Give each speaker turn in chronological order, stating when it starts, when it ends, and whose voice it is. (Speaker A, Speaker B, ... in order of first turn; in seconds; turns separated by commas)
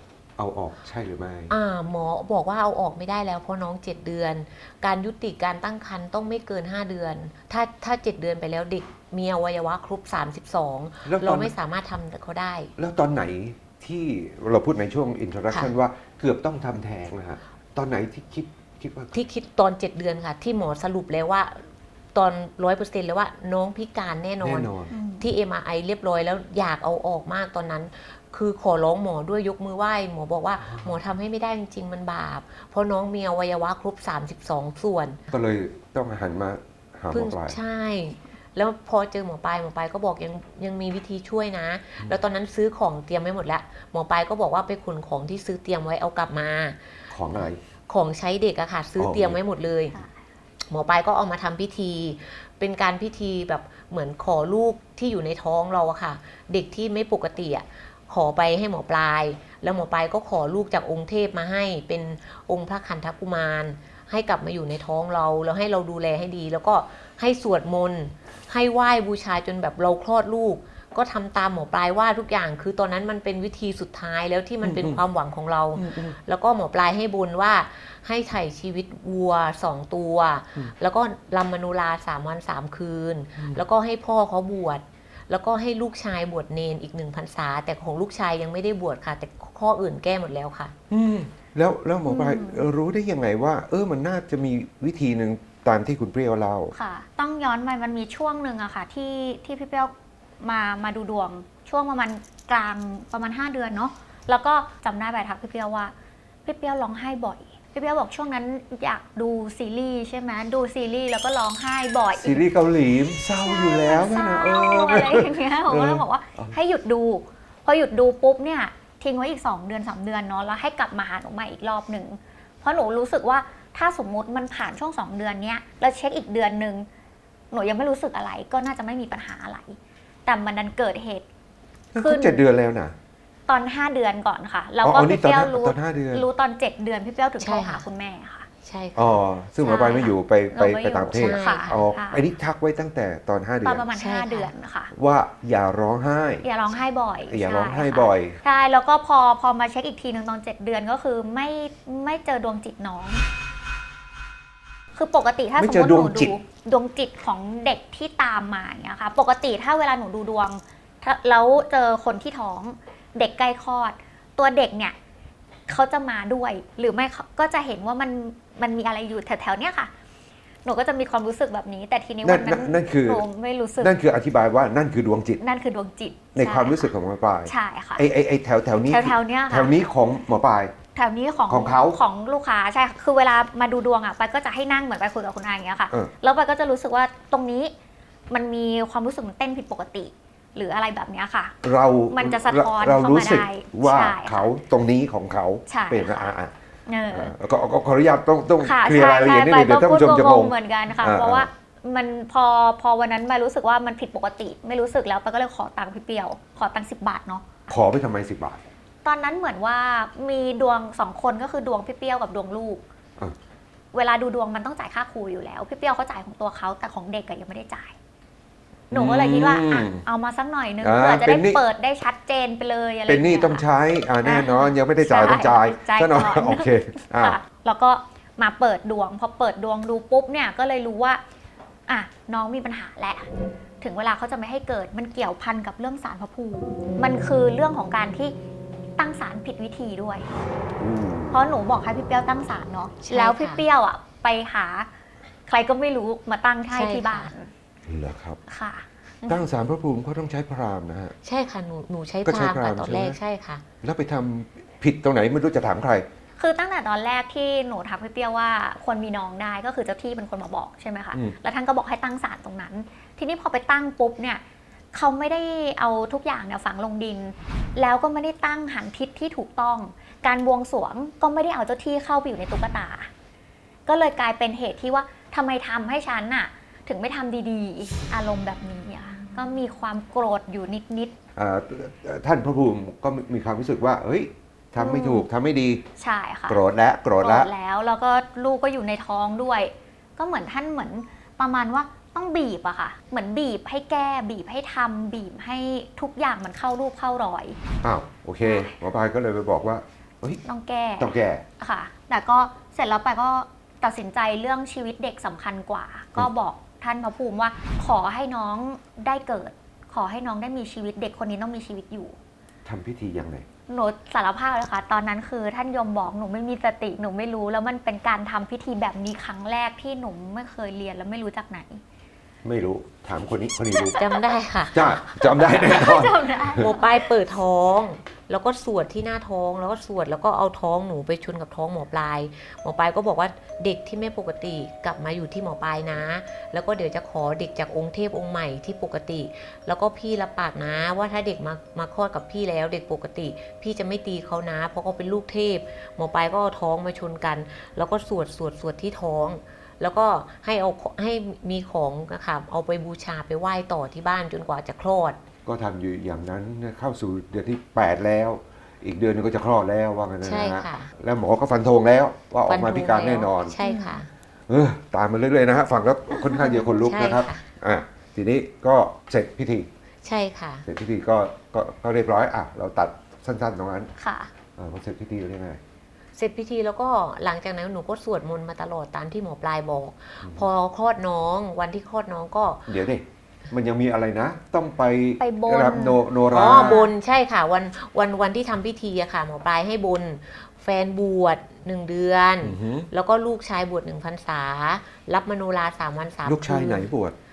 Speaker A: 0.4-1.5, Speaker B: 1.5-12.7, Speaker A: 11.0-11.5, Speaker A: 12.8-19.1, Speaker B: 19.1-35.2, Speaker A: 24.4-24.9, Speaker C: 24.9-25.3, Speaker A: 30.6-31.0, Speaker A: 35.3-37.5, Speaker B: 37.1-46.8, Speaker A: 47.1-47.6, Speaker B: 47.4-50.0, Speaker A: 49.0-49.4, Speaker C: 49.9-50.2, Speaker B: 50.7-90.7, Speaker A: 74.6-75.0, Speaker A: 75.8-76.1, Speaker A: 90.9-96.7, Speaker C: 92.0-92.6, Speaker C: 96.7-105.9, Speaker C: 106.4-112.4, Speaker A: 112.1-116.5, Speaker C: 113.4-126.9, Speaker C: 127.5-131.2, Speaker A: 131.9-132.9, Speaker C: 132.0-132.4, Speaker C: 133.5-138.5, Speaker A: 134.8-136.2, Speaker B: 137.4-137.8, Speaker B: 138.6-139.2, Speaker A: 138.9-143.9, Speaker C: 139.6-142.2, Speaker B: 141.1-141.8, Speaker C: 143.6-144.9, Speaker B: 143.9-144.5, Speaker A: 144.9-146.4, Speaker C: 146.4-153.2, Speaker A: 147.2-148.4, Speaker C: 154.9-164.9, Speaker A: 155.6-156.3, Speaker C: 165.7-169.9, Speaker C: 170.6-173.9, Speaker A: 172.2-173.2, Speaker A: 173.8-175.4, Speaker C: 175.4-176.9, Speaker A: 176.3-180.7, Speaker C: 177.4-178.0, Speaker C: 178.8-179.7, Speaker C: 180.9-187.7, Speaker A: 181.5-182.0, Speaker C: 188.3-191.5, Speaker A: 191.6-196.5, Speaker C: 192.1-194.5, Speaker C: 195.7-196.3, Speaker C: 196.9-197.3, Speaker A: 197.1-201.5, Speaker C: 198.6-207.7, Speaker A: 207.7-208.6, Speaker C: 209.0-212.8, Speaker C: 213.9-217.9, Speaker A: 218.9-220.0, Speaker C: 218.9-223.7, Speaker A: 220.8-221.6, Speaker A: 223.1-227.4, Speaker C: 224.2-231.2, Speaker C: 231.9-233.3, Speaker C: 233.8-238.3, Speaker C: 239.0-240.3, Speaker A: 240.8-241.4, Speaker C: 241.3-244.9, Speaker B: 243.0-243.7, Speaker C: 245.5-247.5, Speaker B: 246.7-247.3, Speaker A: 247.8-248.4, Speaker C: 248.5-249.4, Speaker A: 249.3-251.2, Speaker B: 251.2-253.6, Speaker A: 252.2-253.2, Speaker A: 253.8-256.1, Speaker C: 256.4-264.4, Speaker C: 264.9-273.1, Speaker C: 273.9-281.1, Speaker A: 281.4-285.8, Speaker C: 284.8-285.3, Speaker C: 286.0-286.6, Speaker A: 286.5-287.5, Speaker C: 287.2-297.6, Speaker A: 297.8-300.4, Speaker C: 298.4-298.7, Speaker C: 300.4-312.1, Speaker A: 301.0-301.4, Speaker A: 312.7-313.4, Speaker C: 313.7-321.8, Speaker A: 322.4-324.0, Speaker C: 323.7-324.4, Speaker B: 324.0-325.0, Speaker A: 324.7-326.6, Speaker C: 325.0-327.1, Speaker B: 326.6-355.2, Speaker A: 355.5-363.6, Speaker B: 360.2-360.9, Speaker B: 362.5-364.1, Speaker C: 363.6-364.0, Speaker A: 364.5-369.7, Speaker B: 366.8-367.5, Speaker B: 370.0-370.6, Speaker A: 370.6-373.9, Speaker C: 374.0-374.3, Speaker A: 374.6-375.6, Speaker B: 376.2-382.7, Speaker A: 382.7-386.9, Speaker C: 385.2-386.9, Speaker B: 386.3-396.9, Speaker A: 392.4-392.9, Speaker A: 396.2-397.1